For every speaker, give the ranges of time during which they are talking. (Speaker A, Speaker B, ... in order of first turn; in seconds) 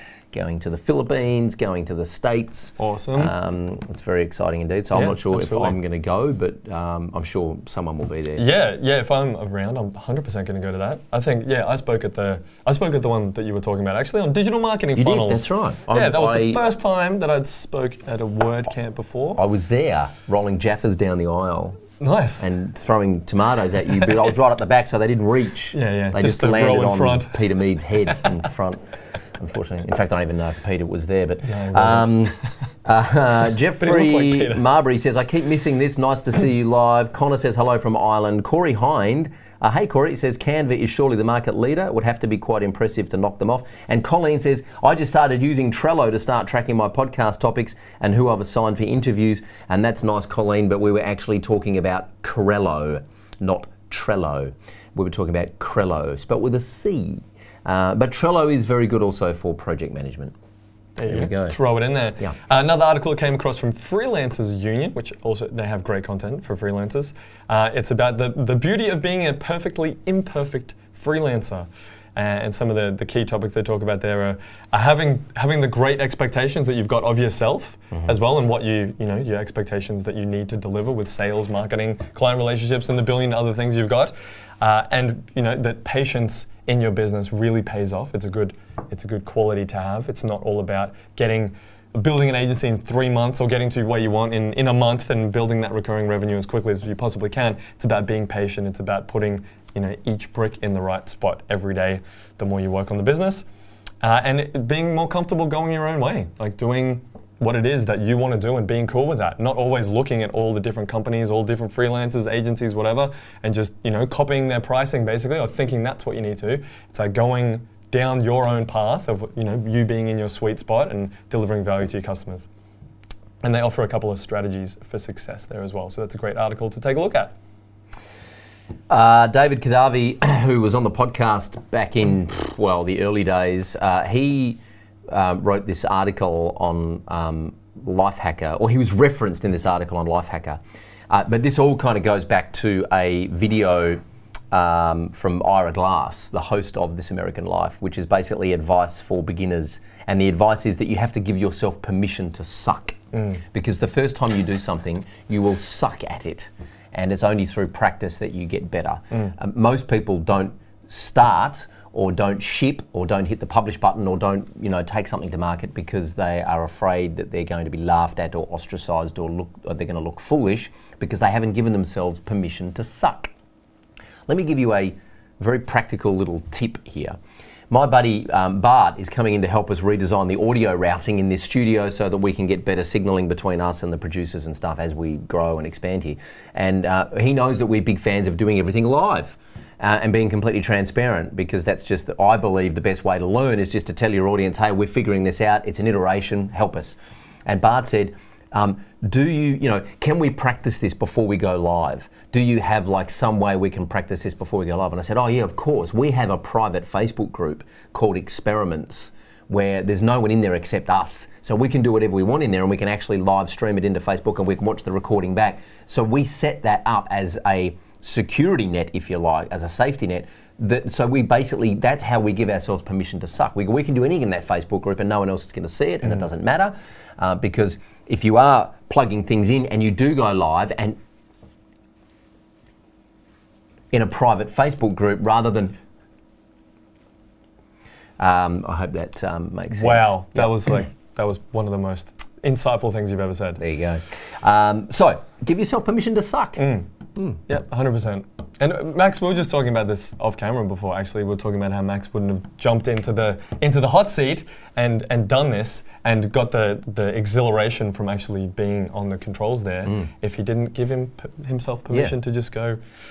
Speaker A: 0.3-8.4, 14.9-16.6, 19.4-21.8, 22.4-28.8, 29.4-60.3, 61.0-61.5, 128.9-173.3, 174.3-177.2, 177.7-231.0, 233.9-235.8, 238.2-240.8, 243.6-247.4
Speaker B: 2.8-3.3, 4.9-5.8, 8.3-19.4, 22.0-22.4, 25.7-27.4, 31.4-32.3, 33.8-34.6, 61.0-103.5, 104.0-122.5, 123.4-127.3, 239.7-243.6, 246.6-246.9, 247.5-262.8